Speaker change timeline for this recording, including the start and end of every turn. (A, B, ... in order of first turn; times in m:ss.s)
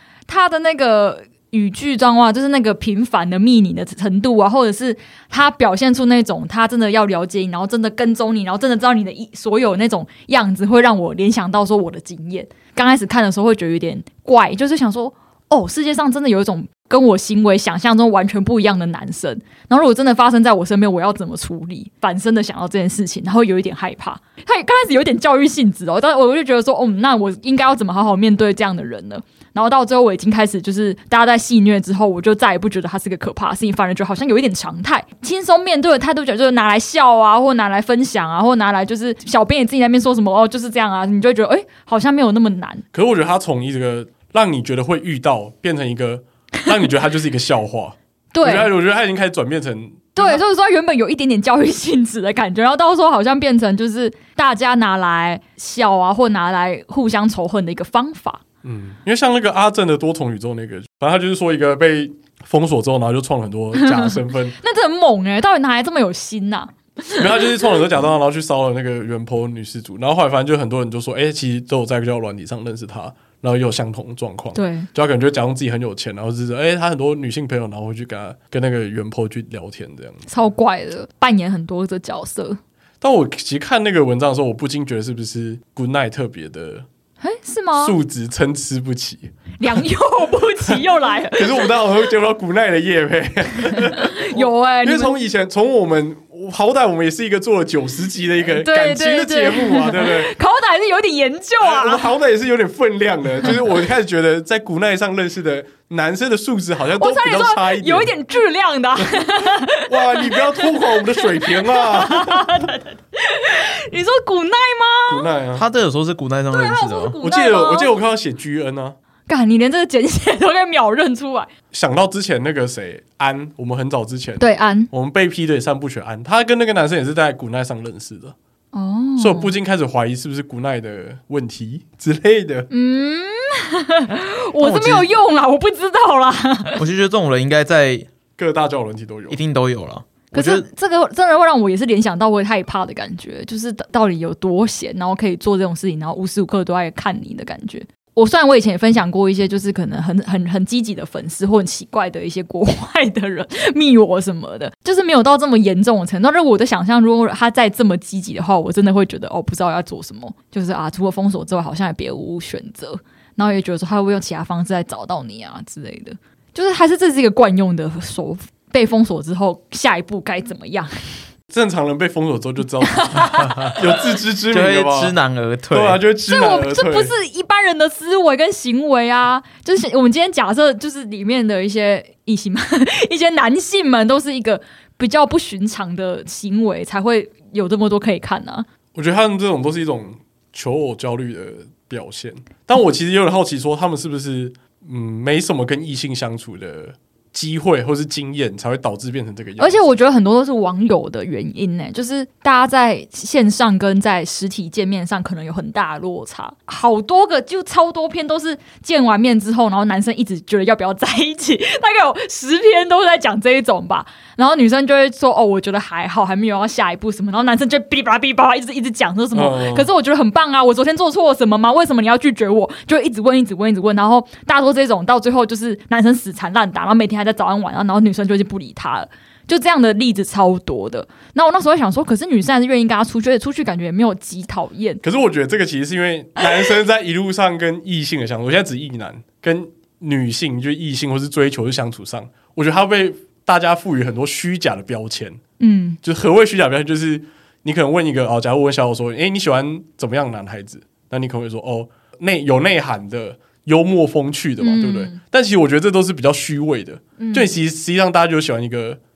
0:00.3-0:42.8 A
0:42.9-0:50.4 B
0:48.3-0:48.7 A
0:50.2-0:58.4 A
0:58.6-1:04.6 B
1:03.8-1:07.7 A
1:07.2-1:20.3 B
1:14.5-1:14.9 A
1:20.3-1:22.6 A
1:23.0-1:26.9 B
1:27.2-1:28.0 A
1:27.8-1:29.3 B
1:29.6-1:31.9 A
1:31.4-1:40.3 B
1:33.8-1:35.2 A
1:38.5-1:42.0 A
1:41.6-1:48.1 B
1:47.0-1:55.3 A
1:49.8-1:52.5 B
1:55.1-1:55.6 B
1:55.6-1:57.2 C
1:56.5-1:57.9 A
1:57.2-1:59.0 B
1:59.3-2:01.5 A
2:01.7-2:08.4 B
2:04.4-2:04.9 A
2:08.7-2:09.5 A
2:09.2-2:12.7 B
2:12.7-2:16.8 A
2:14.6-2:15.1 C
2:16.8-2:18.1 C
2:18.4-2:19.4 B
2:19.3-2:20.7 C
2:20.3-2:51.2 A
2:51.5-2:55.2 B
2:52.8-2:53.8 A
2:54.5-2:56.0 C
2:55.7-2:57.1 B
2:56.3-3:08.7 A
3:09.0-3:19.9 B
3:19.6-3:55.0 A
3:39.3-3:39.9 B
3:55.0-4:05.4 B
4:05.6-4:06.0 A
4:06.0-4:19.0 B
4:14.6-4:15.2 A
4:17.2-4:17.5 A